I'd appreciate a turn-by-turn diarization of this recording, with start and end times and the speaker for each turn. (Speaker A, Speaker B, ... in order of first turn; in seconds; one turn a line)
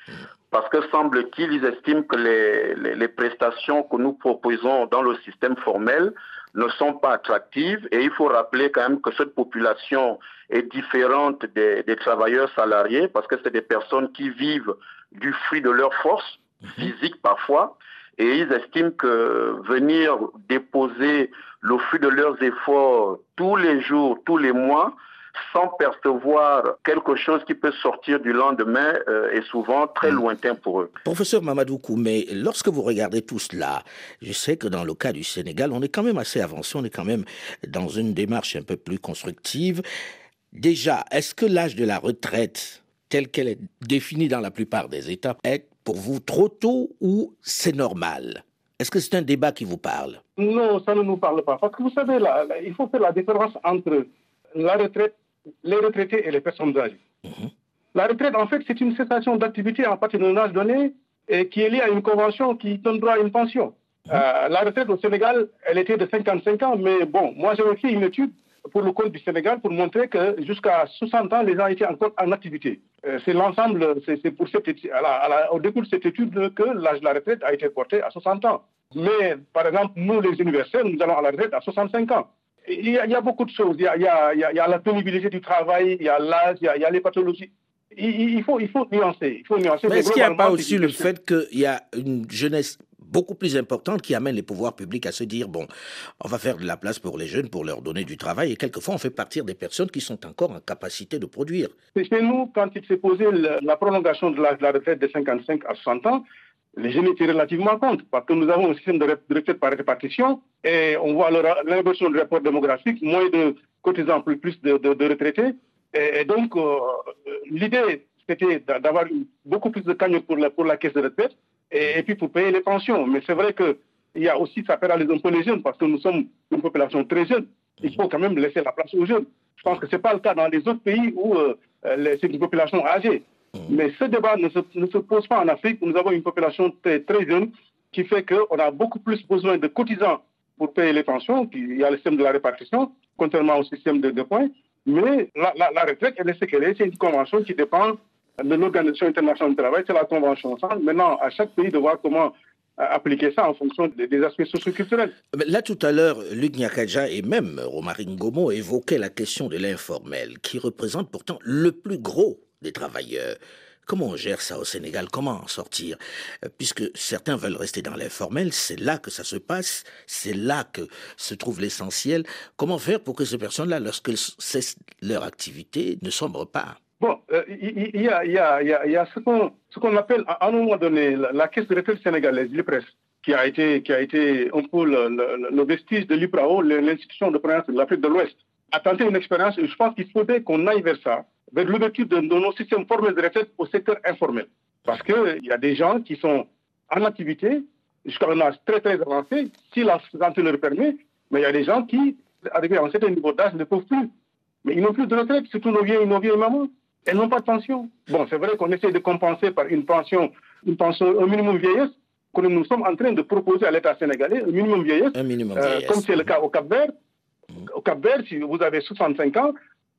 Speaker A: 0.5-30.9
Speaker B: 31.0-39.8
Speaker B: 40.5-50.2
Speaker C: 50.4-55.1
Speaker C: 55.6-57.0
Speaker B: 57.2-57.5
Speaker C: 57.9-91.1
Speaker B: 89.9-95.7
Speaker B: 96.2-101.7
Speaker C: 102.0-106.2
Speaker C: 106.8-155.1
Speaker B: 155.3-176.8
Speaker C: 177.0-204.1
Speaker C: 204.7-216.9
Speaker B: 215.2-216.3
Speaker C: 217.6-219.5